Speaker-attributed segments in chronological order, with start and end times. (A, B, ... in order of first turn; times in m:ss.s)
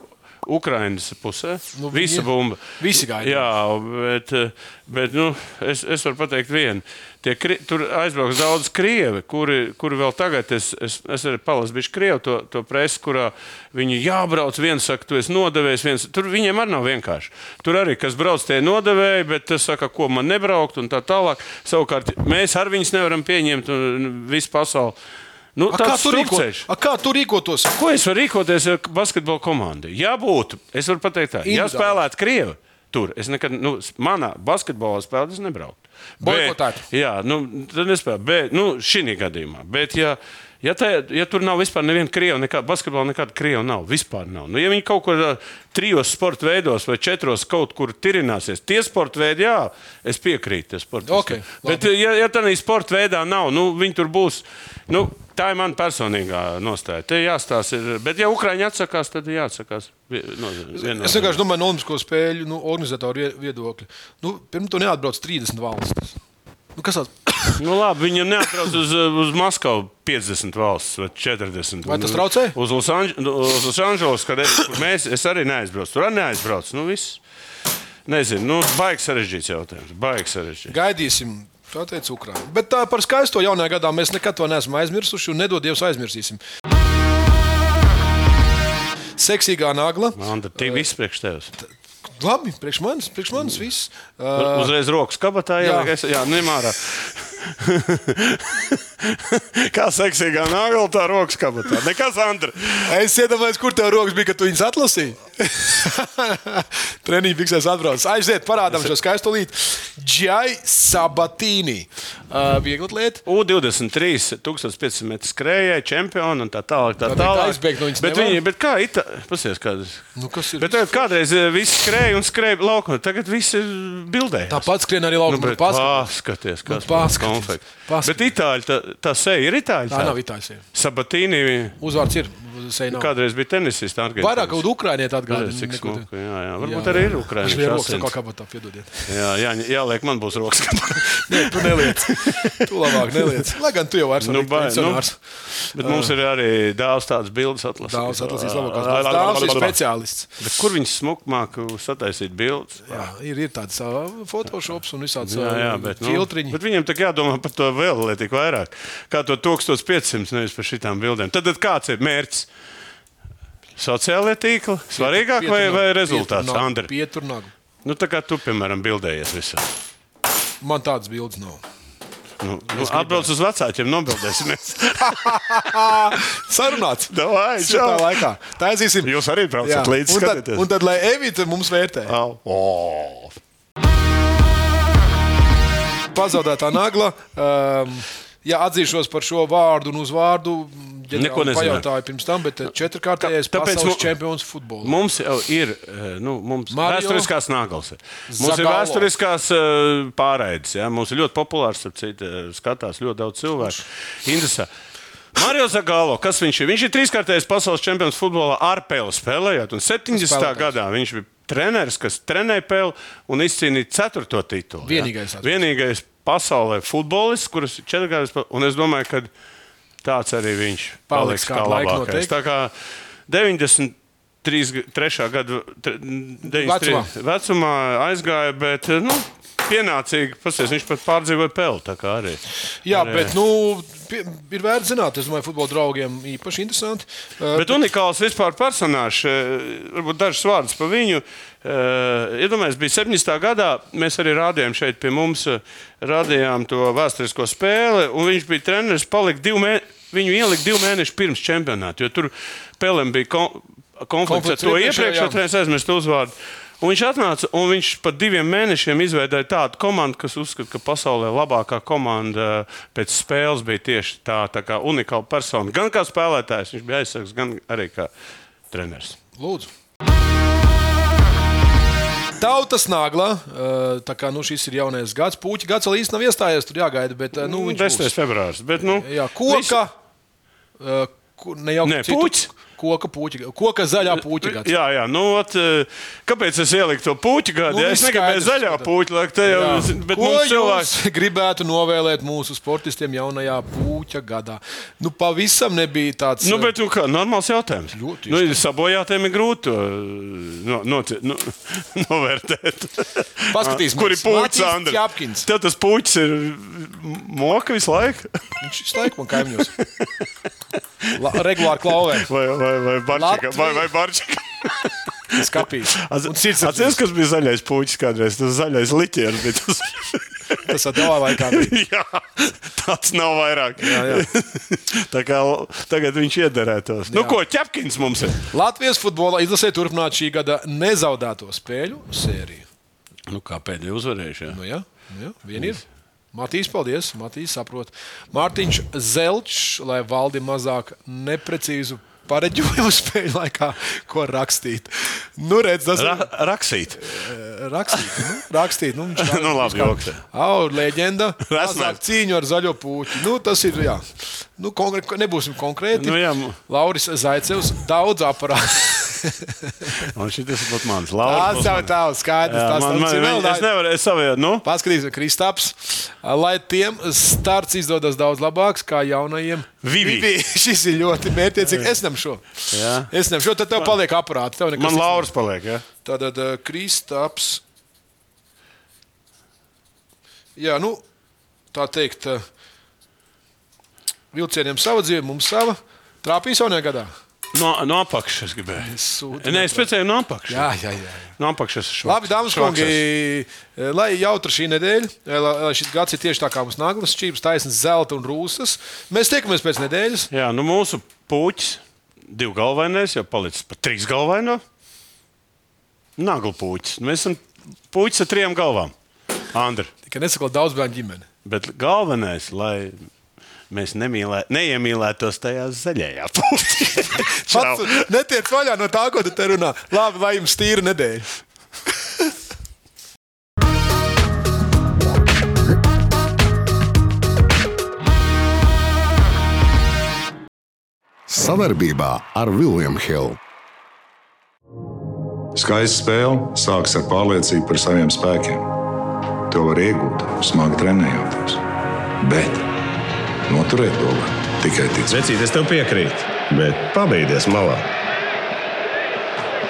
0:00.4-0:25.0 A
0:01.8-0:03.5 B
0:25.6-0:26.7 A
0:25.7-0:27.7 B
0:27.7-1:01.4 A
0:31.4-0:32.0 B
0:36.2-0:36.8 B
0:51.1-0:51.9 B
1:00.7-1:06.2 B
1:06.8-1:07.6 B
1:07.6-1:17.2 A
1:11.8-1:12.6 B
1:18.1-1:20.7 A
1:20.7-1:26.4 B
1:29.2-1:30.8 B
1:30.2-1:31.5 A
1:32.2-1:34.7 B
1:34.4-1:42.9 A
1:35.6-1:35.9 B
1:42.8-1:53.2 B
1:53.3-2:04.7 A
1:57.0-1:58.4 B
2:00.2-2:01.1 B
2:04.5-2:06.1 B
2:05.3-2:11.8 A
2:06.7-2:08.3 B
2:09.9-2:10.6 B
2:11.8-2:13.1 B
2:12.9-2:14.6 A
2:14.2-2:16.1 B
2:15.3-2:18.1 A
2:16.6-2:19.2 B
2:19.1-2:22.6 A
2:21.3-2:25.2 B
2:24.2-2:25.1 A
2:25.6-2:33.1 A
2:25.8-2:26.1 B
2:27.9-2:30.3 B
2:32.9-2:36.6 B
2:35.2-2:42.5 A
2:43.8-2:46.9 A
2:44.9-2:47.5 B
2:47.8-2:49.7 A
2:50.6-2:51.6 B
2:52.4-2:56.2 A
2:52.7-2:53.3 B
2:55.0-2:59.1 B
2:57.1-2:58.3 A
2:59.0-3:00.7 A
2:59.6-3:02.1 B
3:02.1-3:03.4 A
3:06.2-3:15.0 B
3:11.1-3:11.8 A
3:13.2-3:14.1 A
3:14.8-3:24.7 A
3:16.7-3:17.3 B
3:18.3-3:19.1 B
3:25.4-3:39.3 A
3:30.1-3:30.8 B
3:34.8-3:35.6 B
3:40.0-3:42.7 A
3:41.1-3:42.3 B
3:43.3-3:53.3 A
3:46.4-3:47.1 B
3:52.8-3:57.8 B
3:57.5-4:28.1 A
4:14.2-4:15.4 B
4:28.7-4:29.2 A
4:29.4-4:29.7 B
4:32.4-4:38.1 B
4:37.4-4:39.8 A
4:38.9-4:39.9 B
4:40.8-4:44.7 B
4:41.8-4:42.5 A
4:44.2-4:50.9 A
4:47.7-4:48.9 B
4:49.4-4:56.7 B
4:56.4-5:08.4 A
4:57.9-4:58.6 B
5:03.5-5:05.5 B
5:08.6-5:09.7 B
5:09.6-5:10.2 A
5:11.0-5:28.4 A
5:11.2-5:12.3 B
5:13.1-5:13.9 B
5:15.4-5:17.0 B
5:20.6-5:21.7 B
5:23.8-5:24.3 B
5:27.1-5:27.4 B
5:28.5-5:32.7 B
5:33.3-5:34.6 A
5:34.5-5:35.8 B
5:36.3-5:46.3 B
5:46.0-5:47.1 A
5:46.9-6:00.1 B
5:49.2-5:50.2 A
5:51.5-5:52.0 A
5:56.0-5:56.6 A
6:00.0-6:04.6 A
6:01.2-6:03.7 B
6:04.6-6:15.3 B
6:09.8-6:10.3 A
6:11.6-6:12.0 A
6:12.7-6:13.1 A
6:14.8-6:15.8 A
6:16.0-6:17.6 B
6:20.6-6:21.0 B
6:21.7-6:22.4 B
6:24.3-6:27.1 B
6:27.5-6:30.7 A
6:28.8-6:29.9 B
6:30.5-6:31.3 B
6:31.4-6:33.0 A
6:32.0-6:40.3 B
6:40.3-6:44.6 A
6:46.2-6:48.9 A
6:49.5-6:49.9 A
6:50.0-6:51.3 B
6:51.4-6:53.1 A
6:53.7-6:58.0 A
6:57.2-7:01.3 B
7:11.3-7:13.4 C
7:15.5-7:18.8 D
7:19.5-7:21.6 D
7:22.2-7:22.7 D
7:23.5-7:25.2 D
7:25.1-7:27.9 E